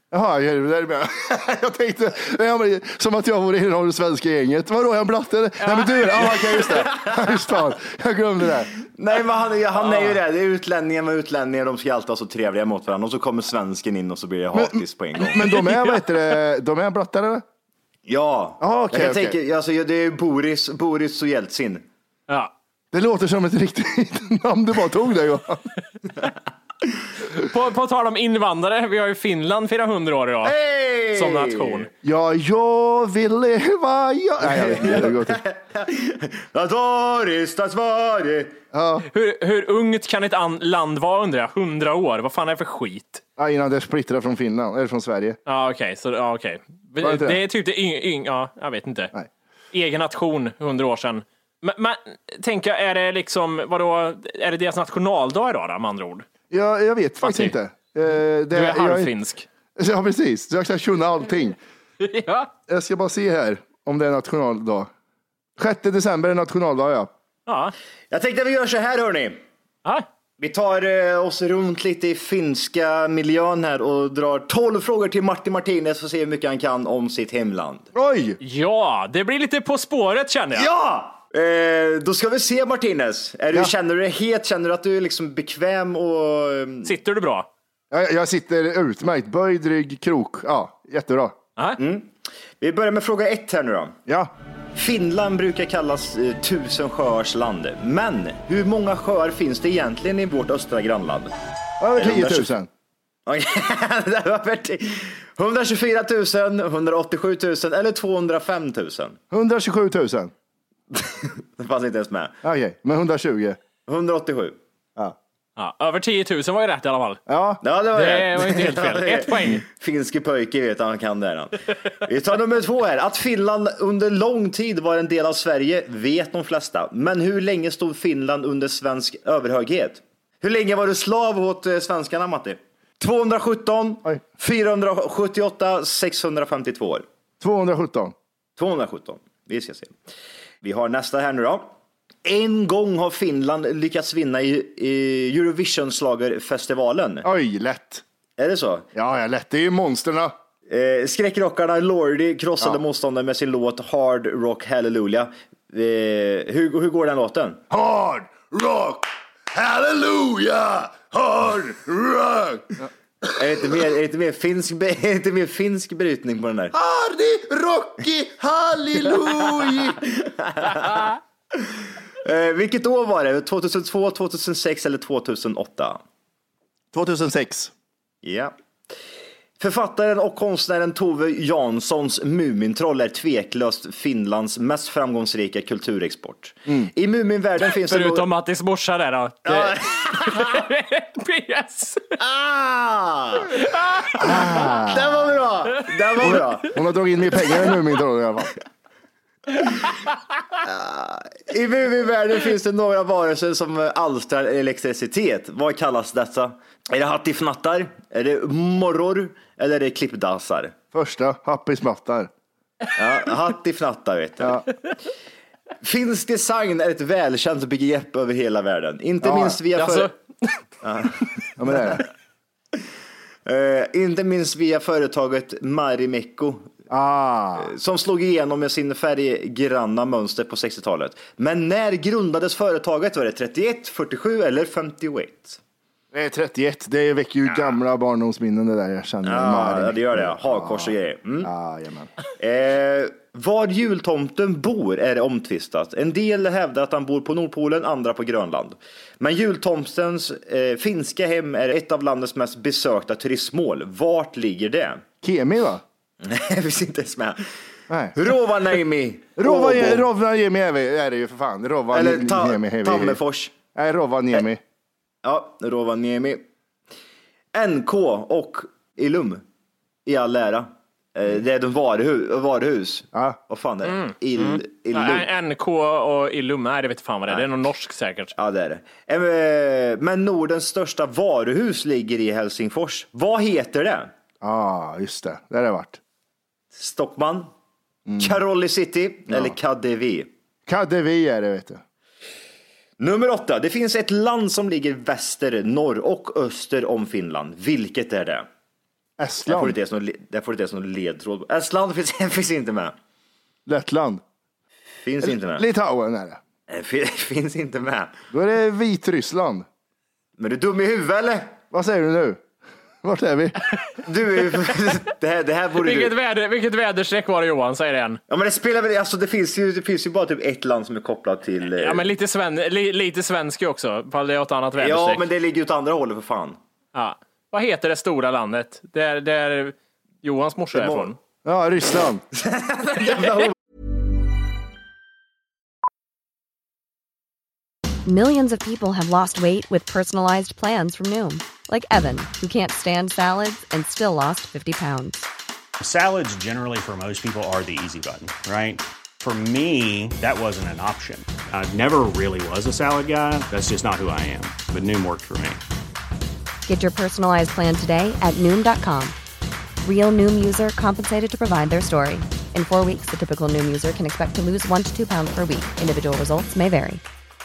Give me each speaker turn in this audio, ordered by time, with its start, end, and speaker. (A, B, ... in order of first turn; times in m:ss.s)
0:00.1-0:08.7 A
0:05.6-0:06.5 B
0:09.0-0:15.5 C
0:14.5-0:17.4 A
0:15.4-0:16.0 B
0:18.1-0:21.8 C
0:18.6-0:19.4 A
0:22.9-0:25.7 A
0:27.4-0:30.6 B
0:30.4-0:31.9 C
0:31.2-0:31.9 B
0:32.0-0:35.4 A
0:34.4-0:38.6 C
0:38.7-0:39.1 A
0:39.1-0:43.2 B
0:43.4-0:45.4 A
0:45.5-0:49.1 B
0:47.0-0:47.4 A
0:49.7-0:56.3 B
0:56.5-0:59.1 A
0:57.2-0:57.5 B
0:58.5-0:59.5 B
0:59.8-1:01.6 A
1:02.0-1:02.5 B
1:02.7-1:04.9 A
1:05.6-1:07.1 A
1:07.5-1:07.7 B
1:08.1-1:09.4 C
1:10.4-1:17.9 C
1:17.9-1:18.4 A
1:18.4-1:20.7 B
1:20.6-1:26.9 C
1:26.8-1:27.5 B
1:27.9-1:31.4 A
1:31.8-1:34.0 C
1:34.1-1:34.3 A
1:34.8-1:41.3 C
1:41.8-1:42.7 A
1:42.0-1:42.5 C
1:43.3-1:49.2 C
1:49.3-1:50.3 A
1:50.9-1:52.4 C
1:52.4-1:53.6 A
1:53.9-1:54.6 C
1:55.6-1:57.2 B
1:57.3-1:57.6 A
1:57.6-2:17.0 C
1:58.0-1:59.6 B
2:17.4-2:18.2 A
2:18.6-2:19.9 C
2:20.6-2:21.7 C
2:22.2-2:27.3 C
2:27.2-2:28.0 A
2:28.4-2:28.9 C
2:29.0-2:30.3 A
2:30.7-2:37.6 C
2:37.7-2:42.9 A
2:43.3-2:46.7 C
2:46.7-2:50.0 A
2:49.7-2:56.0 C
2:56.9-2:57.7 A
2:58.2-2:58.5 C
2:59.6-3:08.3 C
3:07.6-3:12.2 B
3:09.5-3:10.6 C
3:12.2-3:13.6 C
3:13.5-3:14.2 B
3:14.2-3:16.8 C
3:14.2-3:15.4 A
3:16.2-3:18.5 A
3:20.6-3:30.7 C
3:30.9-3:32.3 A
3:33.0-3:34.7 C
3:35.8-3:40.1 C
3:39.2-3:39.6 A
3:39.8-3:40.1 B
3:40.8-3:41.3 C
3:41.6-3:42.0 A
3:43.5-3:46.7 C
3:46.9-3:47.7 A
3:47.6-3:55.6 C
3:56.1-4:02.1 A
3:59.2-4:01.5 C
4:02.4-4:15.0 C
4:15.2-4:15.8 A
4:16.2-4:17.4 C
4:17.9-4:18.2 A
4:18.2-4:20.1 C
4:19.4-4:23.2 A
4:21.9-4:23.5 C
4:23.8-4:24.6 A
4:25.2-4:26.4 C
4:27.5-4:29.4 C
4:30.1-4:35.3 C
4:33.9-4:38.3 B
4:38.4-4:44.1 C
4:44.4-4:46.0 A
4:46.7-4:47.5 C
4:48.1-4:48.4 A
4:48.2-4:50.3 C
4:49.3-4:49.6 A
4:50.7-4:51.8 A
4:53.0-4:58.5 C
4:59.2-4:59.8 A
4:59.5-5:03.0 C
5:03.7-5:04.2 A
5:05.0-5:05.6 C
5:05.2-5:06.4 A
5:06.7-5:08.1 C
5:08.3-5:09.7 A
5:10.4-5:11.5 C
5:11.7-5:12.4 A
5:13.0-5:13.6 A
5:14.0-5:16.1 C
5:15.8-5:18.2 B
5:18.3-5:22.1 C
5:21.8-5:25.2 B
5:24.8-5:26.6 C
5:27.0-5:31.2 B
5:30.8-5:31.1 C
5:31.4-5:32.2 A
5:32.4-5:33.5 C
5:38.1-5:45.3 D
5:45.8-5:55.6 E
5:56.7-5:59.2 D
5:59.8-6:07.0 D